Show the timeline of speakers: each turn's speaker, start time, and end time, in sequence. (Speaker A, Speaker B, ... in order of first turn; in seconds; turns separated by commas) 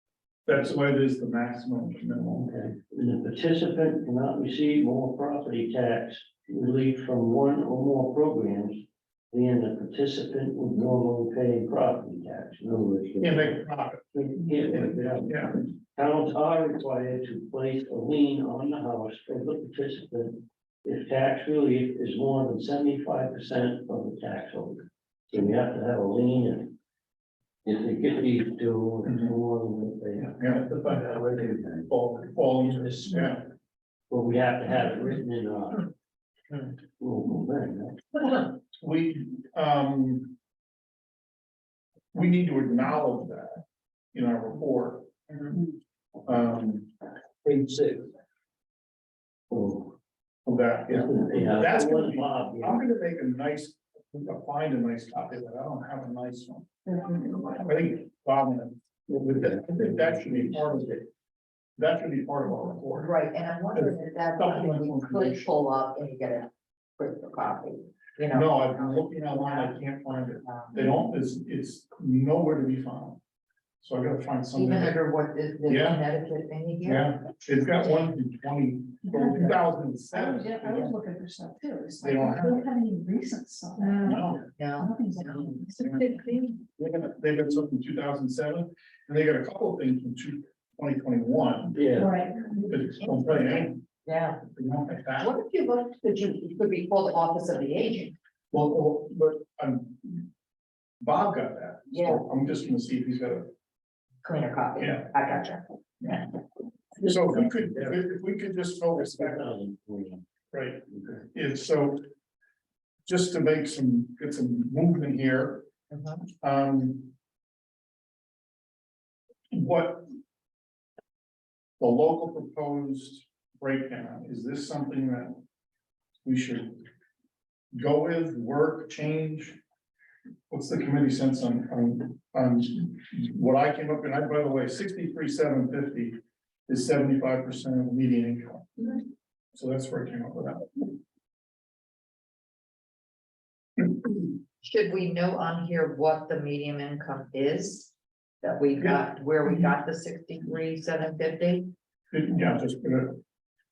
Speaker A: 0.5-2.5, Speaker B: 2.4-8.8, Speaker B: 9.3-13.6, Speaker A: 13.2-14.0, Speaker B: 14.1-26.7, Speaker A: 14.7-15.5, Speaker B: 27.6-31.8, Speaker A: 29.0-29.4, Speaker A: 30.4-30.6, Speaker C: 30.6-33.1, Speaker A: 32.3-33.4, Speaker B: 32.6-33.3, Speaker B: 34.1-35.9, Speaker B: 37.0-38.2, Speaker A: 38.8-40.3, Speaker A: 42.1-43.6, Speaker A: 44.1-45.6, Speaker A: 46.2-46.9, Speaker C: 47.4-48.1, Speaker B: 49.5-49.9, Speaker A: 50.5-56.7, Speaker B: 50.9-52.8, Speaker D: 56.9-57.6, Speaker A: 57.5-61.1, Speaker A: 61.8-63.1, Speaker E: 63.0-70.9, Speaker A: 63.7-65.4, Speaker A: 68.3-73.2, Speaker A: 73.8-75.0, Speaker E: 74.5-77.2, Speaker A: 75.7-76.0, Speaker A: 76.8-80.9, Speaker D: 79.1-79.5, Speaker D: 80.1-86.5, Speaker A: 82.0-82.7, Speaker A: 84.0-84.4, Speaker E: 84.5-85.7, Speaker A: 85.8-86.2, Speaker A: 86.8-92.0, Speaker B: 91.8-92.1, Speaker D: 92.0-92.6, Speaker A: 92.7-93.8, Speaker E: 93.0-94.4, Speaker A: 94.5-95.3, Speaker E: 95.2-98.2, Speaker A: 98.5-100.3, Speaker A: 101.0-103.5, Speaker E: 101.9-102.2, Speaker E: 104.2-106.2, Speaker A: 104.8-105.1, Speaker A: 107.0-109.5, Speaker B: 107.1-108.0, Speaker B: 108.9-110.2, Speaker A: 110.5-112.0, Speaker B: 110.9-111.2, Speaker A: 113.0-115.7, Speaker E: 115.9-116.2, Speaker A: 116.4-117.1, Speaker A: 119.5-120.1, Speaker A: 121.8-125.4, Speaker A: 126.2-126.8, Speaker A: 127.7-129.6, Speaker A: 130.5-136.2, Speaker A: 136.7-138.9, Speaker A: 139.5-140.9, Speaker E: 144.6-151.7, Speaker A: 148.8-149.8, Speaker A: 152.1-153.2